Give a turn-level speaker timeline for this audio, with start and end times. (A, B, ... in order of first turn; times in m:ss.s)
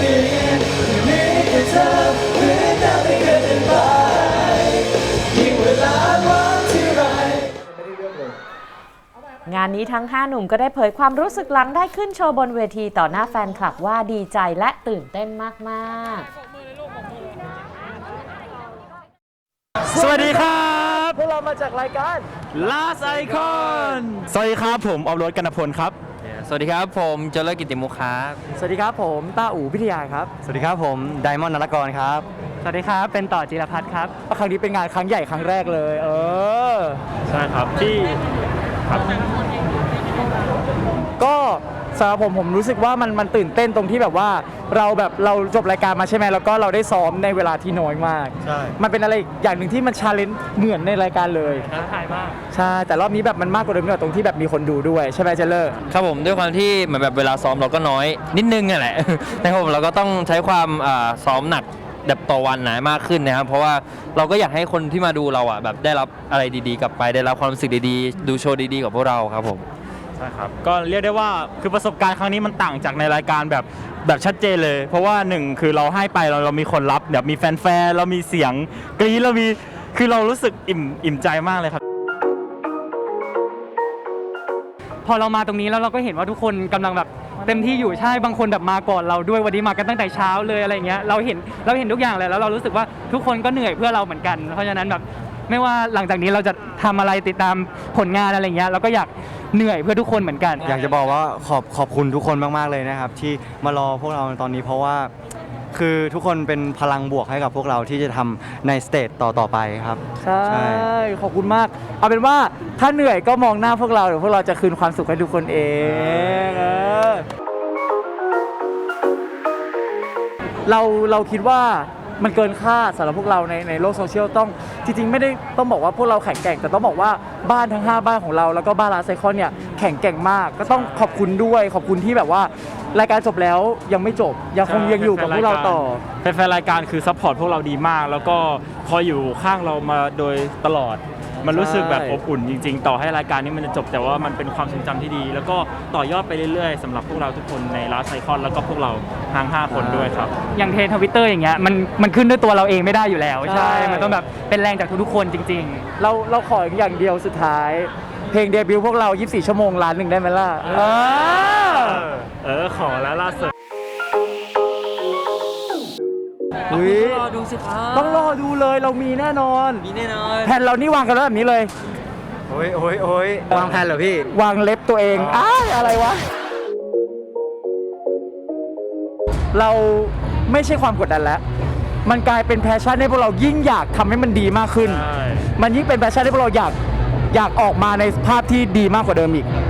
0:01.9-0:02.3 A
0:02.9-0:03.6 A
0:09.4-0:16.3 B
0:19.8-0:21.2 C
0:19.9-0:24.2 A
0:22.5-0:26.0 C
0:26.2-0:28.4 D
0:28.5-0:30.3 A
0:30.4-0:32.3 E
0:32.6-0:34.1 F
0:34.3-0:37.0 A
0:37.3-0:38.2 C
0:38.8-0:39.2 C
0:41.2-0:51.7 A
0:48.4-0:48.8 E
0:51.8-0:52.2 F
0:52.5-0:55.8 A
0:55.9-1:09.6 D
1:10.2-1:21.8 C
1:25.0-1:40.6 F
1:40.6-1:45.1 E
1:45.7-1:50.9 E
1:50.2-1:57.2 A
1:55.8-1:56.5 E
2:00.7-2:16.0 A
2:10.6-2:11.2 C
2:14.6-2:30.3 C
2:21.5-2:22.2 A
2:29.7-2:30.0 A
2:30.5-2:35.8 F
2:33.4-2:34.2 A
2:36.0-2:42.1 A
2:40.9-2:43.5 C
2:46.7-2:47.2 A
2:46.7-2:48.4 D
2:47.9-2:49.9 A
2:49.8-2:50.5 D
2:50.4-2:51.7 A
2:52.5-2:54.2 E
2:53.5-2:56.2 A
2:55.1-2:55.5 E
2:59.5-3:01.4 A
3:02.0-3:05.0 A
3:04.8-3:05.5 C
3:05.6-3:06.8 A
3:07.3-3:09.5 A